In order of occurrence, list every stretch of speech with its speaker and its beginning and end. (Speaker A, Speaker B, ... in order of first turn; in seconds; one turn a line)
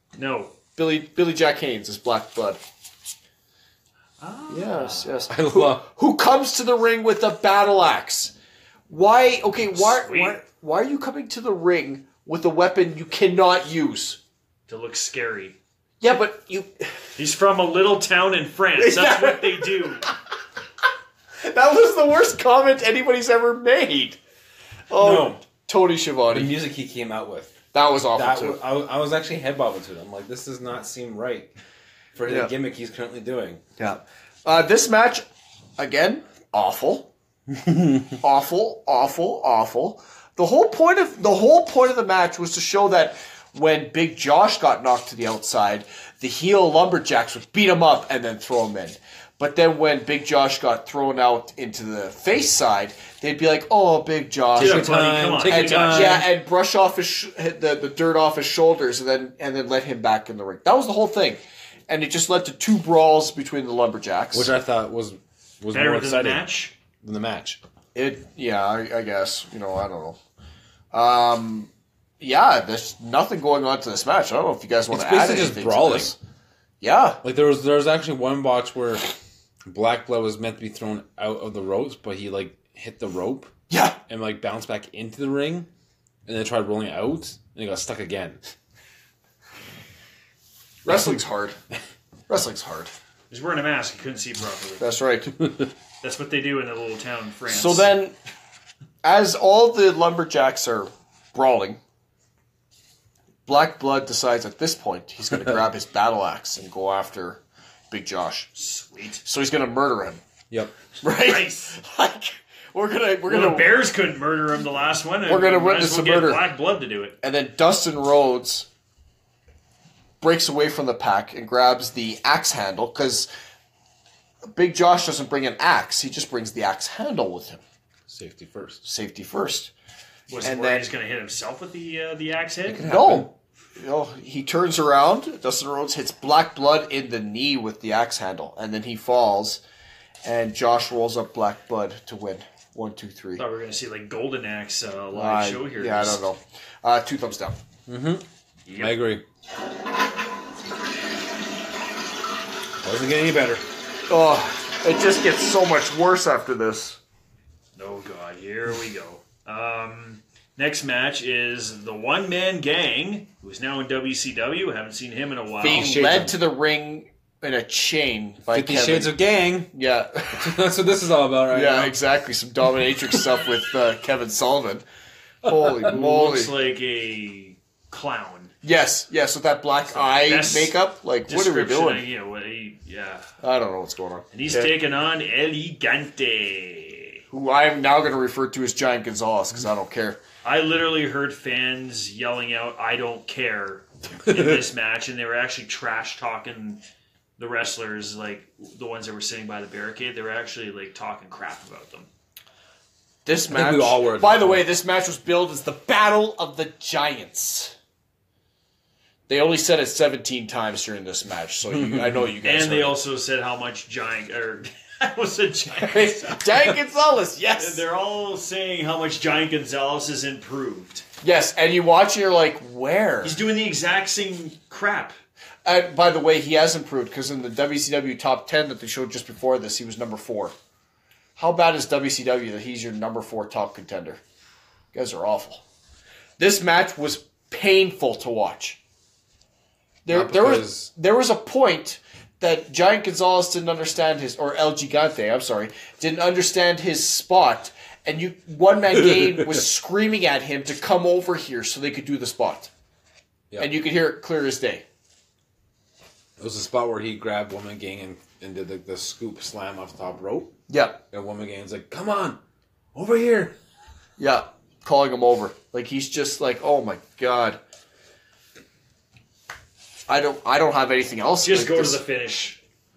Speaker A: 0.1-0.6
Speaker B: 0.8-2.6
Speaker A: 4.2-5.2
Speaker B: 4.5-8.3
Speaker C: 5.3-5.8
Speaker B: 8.9-14.2
Speaker A: 9.8-10.4
Speaker A: 14.7-15.6
Speaker B: 16.0-16.8
Speaker A: 17.1-20.1
Speaker B: 18.8-20.1
Speaker B: 21.4-24.2
Speaker B: 24.9-26.5
Speaker C: 25.0-25.4
Speaker C: 26.3-27.5
Speaker B: 27.7-28.6
Speaker C: 28.1-31.5
Speaker C: 32.1-33.6
Speaker B: 33.8-35.2
Speaker B: 35.8-37.1
Speaker C: 37.6-38.1
Speaker B: 38.2-64.5
Speaker C: 54.5-56.2
Speaker A: 54.6-56.2
Speaker C: 64.3-66.4
Speaker A: 65.7-66.7
Speaker C: 67.0-67.6
Speaker B: 67.9-70.2
Speaker B: 70.9-76.2
Speaker C: 74.9-76.1
Speaker B: 76.8-77.2
Speaker C: 77.2-79.1
Speaker C: 79.7-83.5
Speaker B: 83.7-84.0
Speaker C: 84.1-85.7
Speaker C: 86.3-88.4
Speaker B: 90.8-91.5
Speaker B: 92.3-92.9
Speaker A: 93.3-94.9
Speaker B: 94.8-95.3
Speaker A: 96.0-97.9
Speaker B: 97.5-98.1
Speaker B: 99.0-101.8
Speaker B: 103.5-108.5
Speaker A: 108.5-109.2
Speaker B: 109.2-110.2
Speaker B: 111.0-113.8
Speaker A: 111.1-111.7
Speaker A: 113.3-117.2
Speaker B: 115.2-116.4
Speaker B: 117.2-118.7
Speaker B: 120.2-123.3
Speaker B: 124.5-127.6
Speaker C: 128.1-128.8
Speaker B: 128.8-129.7
Speaker A: 130.3-132.8
Speaker B: 130.4-130.9
Speaker C: 132.7-133.3
Speaker B: 132.8-139.6
Speaker B: 140.2-143.4
Speaker A: 143.4-146.2
Speaker B: 145.1-147.6
Speaker C: 147.9-149.2
Speaker A: 148.7-148.9
Speaker C: 152.8-153.6
Speaker B: 154.1-157.0
Speaker A: 157.8-165.9
Speaker B: 165.6-169.1
Speaker C: 165.6-166.4
Speaker C: 168.5-169.7
Speaker B: 169.7-170.5
Speaker C: 170.4-171.9
Speaker B: 171.5-174.8
Speaker B: 175.4-176.5
Speaker A: 175.8-178.5
Speaker B: 178.6-182.0
Speaker A: 179.9-180.7
Speaker A: 181.3-183.2
Speaker B: 183.4-184.7
Speaker A: 184.3-187.2
Speaker B: 187.3-190.2
Speaker A: 190.4-196.8
Speaker A: 197.4-202.1
Speaker B: 203.2-207.7
Speaker C: 203.5-204.6
Speaker B: 209.3-213.0
Speaker C: 211.7-212.3
Speaker A: 212.4-216.6
Speaker B: 215.7-217.8
Speaker A: 217.6-221.0
Speaker B: 221.2-223.4
Speaker A: 223.2-225.2
Speaker B: 225.6-230.5
Speaker B: 231.3-234.2
Speaker B: 234.9-235.6
Speaker B: 236.4-238.8
Speaker B: 240.0-252.7
Speaker C: 240.1-240.9
Speaker B: 253.6-254.8
Speaker C: 256.4-260.5
Speaker B: 260.7-261.0
Speaker C: 261.1-262.4
Speaker C: 262.9-263.5
Speaker B: 264.2-267.6
Speaker B: 270.1-272.0
Speaker A: 271.4-272.6